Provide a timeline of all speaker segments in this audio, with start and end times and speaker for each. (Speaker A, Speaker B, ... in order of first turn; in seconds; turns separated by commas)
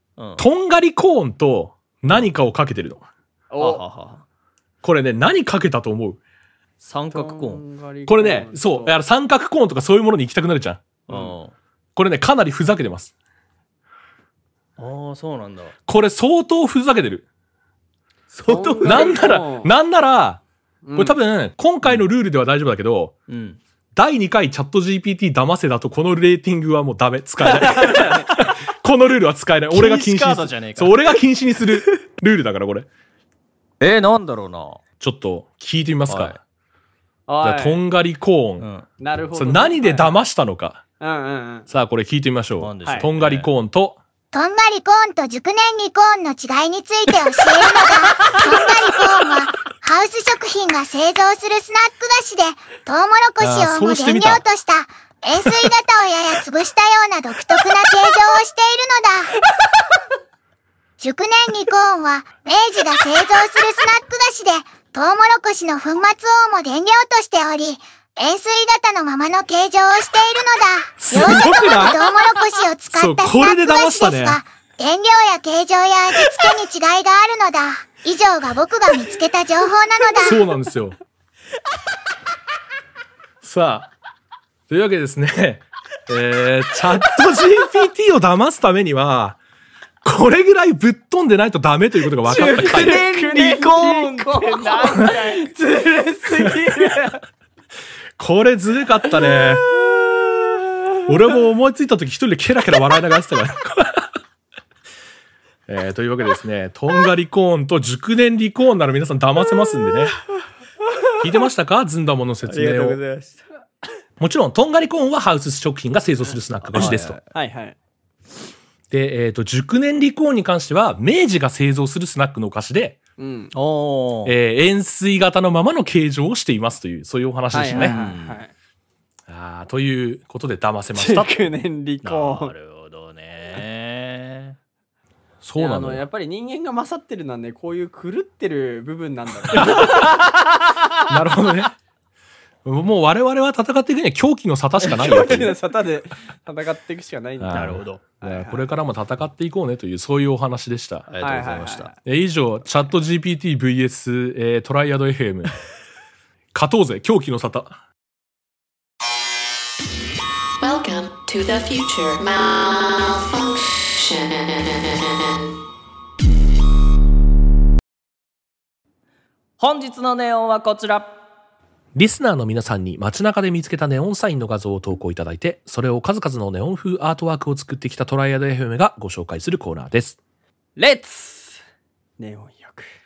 Speaker A: 0.2-0.5, Speaker B: 0.4-3.0, Speaker C: 3.5-3.8, Speaker A: 3.6-4.2, Speaker B: 4.8-6.2, Speaker A: 6.8-7.6, Speaker C: 7.1-9.0, Speaker B: 8.1-10.8, Speaker C: 11.1-11.4, Speaker A: 11.1-11.6, Speaker B: 12.0-13.1, Speaker A: 14.8-15.7, Speaker B: 15.9-17.2, Speaker A: 18.3-19.2, Speaker C: 18.5-19.7, Speaker B: 18.8-20.4, Speaker C: 20.8-21.2, Speaker B: 21.0-23.1, Speaker A: 23.3-23.6, Speaker B: 23.9-32.9, Speaker C: 27.7-28.3, Speaker A: 29.7-31.2, Speaker A: 33.8-34.8, Speaker B: 35.0-36.4, Speaker A: 36.1-36.4, Speaker C: 37.3-37.8, Speaker B: 37.4-38.7, Speaker A: 38.6-38.9, Speaker C: 39.0-40.1, Speaker B: 39.4-40.8, Speaker C: 41.0-41.7, Speaker B: 41.7-44.0, Speaker A: 42.6-43.5, Speaker D: 44.3-59.4, Speaker B: 53.4-54.4, Speaker D: 61.0-80.4, Speaker B: 71.0-72.0, Speaker B: 72.9-74.4, Speaker B: 80.2-81.0, Speaker B: 83.4-83.9, Speaker B: 84.7-89.4, Speaker B: 90.0-93.0, Speaker A: 92.2-95.5, Speaker C: 92.3-97.2, Speaker B: 96.4-96.7, Speaker B: 98.2-99.7, Speaker B: 101.1-104.1, Speaker B: 105.7-110.2, Speaker B: 111.2-113.0, Speaker A: 112.4-113.4, Speaker B: 114.2-117.2, Speaker A: 116.6-117.2, Speaker C: 116.8-117.8, Speaker B: 118.9-123.0, Speaker C: 123.2-123.5, Speaker A: 123.5-124.3, Speaker B: 124.2-128.0, Speaker C: 127.5-128.5, Speaker A: 127.7-128.4, Speaker B: 129.3-131.3, Speaker C: 130.9-132.5, Speaker A: 132.0-134.6, Speaker B: 135.4-136.0, Speaker C: 135.6-140.8, Speaker B: 139.5-140.2, Speaker B: 141.1-141.7, Speaker B: 142.7-145.6, Speaker C: 144.8-148.7, Speaker B: 147.4-151.1, Speaker A: 147.5-148.0, Speaker A: 151.1-151.9, Speaker C: 151.2-152.0, Speaker B: 152.1-155.6, Speaker B: 156.5-157.8, Speaker E: 160.6-165.6, Speaker A: 169.6-171.2, Speaker B: 171.9-180.2, Speaker C: 180.8-181.6, Speaker C: 182.2-182.9